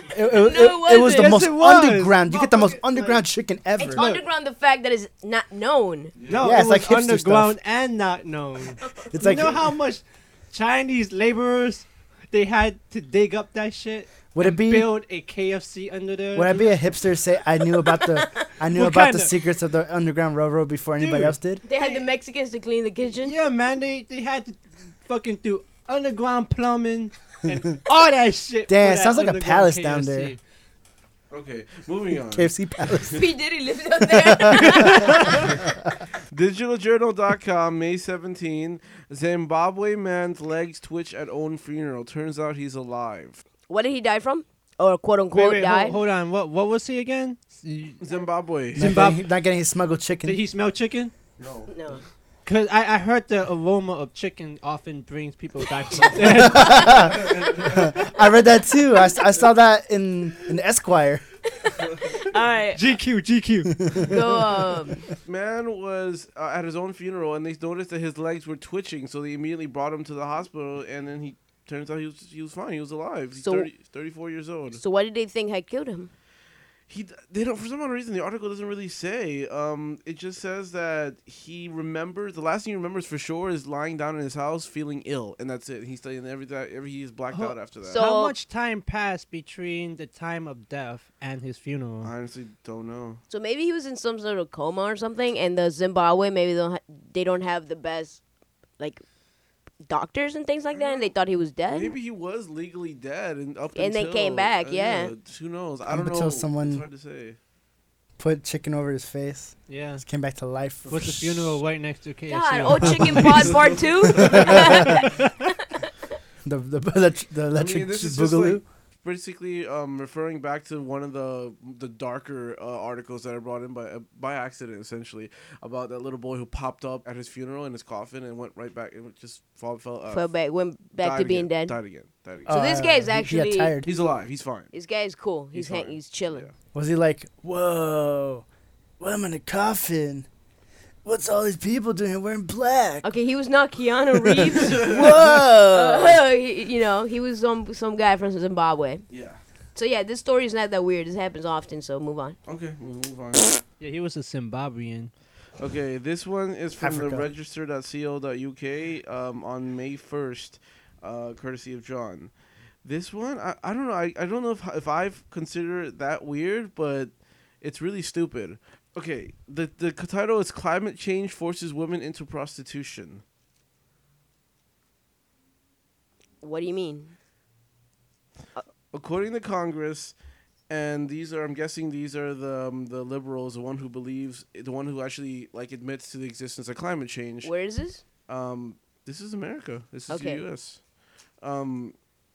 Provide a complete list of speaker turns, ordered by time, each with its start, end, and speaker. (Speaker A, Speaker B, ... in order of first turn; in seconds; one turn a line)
Speaker A: 0.1-4.0
Speaker B: 0.3-1.4
Speaker C: 0.9-3.2
Speaker B: 3.8-6.1
Speaker C: 4.0-4.2
Speaker D: 6.2-6.5
Speaker C: 6.3-16.7
Speaker A: 6.4-7.6
Speaker A: 9.1-9.7
Speaker A: 14.3-14.9
Speaker A: 16.3-21.6
Speaker B: 17.9-18.5
Speaker C: 18.7-19.3
Speaker C: 21.0-22.1
Speaker B: 21.7-23.4
Speaker C: 23.2-30.4
Speaker A: 28.7-30.3
Speaker D: 31.3-32.5
Speaker A: 32.3-33.3
Speaker B: 33.1-35.4
Speaker A: 34.0-35.8
Speaker D: 36.3-43.4
Speaker B: 43.7-46.0
Speaker C: 45.3-48.0
Speaker D: 48.0-49.0
Speaker C: 48.8-49.2
Speaker A: 48.8-50.4
Speaker C: 50.2-51.1
Speaker D: 51.4-51.7
Speaker B: 51.7-52.0
Speaker C: 52.5-57.3
Speaker A: 56.3-61.2
Speaker B: 61.6-62.8
Speaker C: 62.8-64.2
Speaker A: 63.9-64.2
Speaker B: 64.1-65.0
Speaker D: 65.3-74.8
Speaker B: 73.4-73.7
Speaker B: 74.8-76.1
Speaker D: 76.9-88.0
Speaker C: 87.3-92.1
Speaker B: 87.8-88.3
Speaker D: 92.0-93.2
Speaker B: 93.3-98.2
Speaker B: 99.9-101.9
Speaker D: 100.8-101.1
Speaker D: 101.7-107.4
Speaker B: 103.8-105.1
Speaker A: 105.9-106.8
Speaker A: 108.2-111.6
Speaker C: 109.7-110.0
Speaker C: 110.9-113.7
Speaker B: 112.3-115.3
Speaker A: 112.8-113.5
Speaker A: 114.2-115.1
Speaker D: 114.2-114.5
Speaker C: 115.0-115.3
Speaker A: 116.4-118.6
Speaker D: 117.5-130.3
Speaker B: 130.1-131.8
Speaker D: 131.0-132.6
Speaker A: 132.5-133.9
Speaker B: 132.5-133.7
Speaker D: 133.8-134.7
Speaker B: 134.7-136.5
Speaker D: 135.5-136.5
Speaker A: 136.7-138.4
Speaker A: 139.0-140.3
Speaker A: 141.0-143.1
Speaker B: 143.0-149.1
Speaker A: 144.4-146.2
Speaker D: 144.6-145.1
Speaker D: 149.1-149.4
Speaker B: 149.8-152.4
Speaker D: 152.5-153.6
Speaker C: 153.8-155.1
Speaker D: 155.6-162.3
Speaker A: 156.8-157.3
Speaker D: 162.8-173.2
Speaker B: 176.4-177.2
Speaker D: 178.9-180.1
Speaker D: 180.7-187.5
Speaker B: 187.4-188.0
Speaker D: 188.3-190.8
Speaker B: 190.1-190.4
Speaker D: 191.4-191.9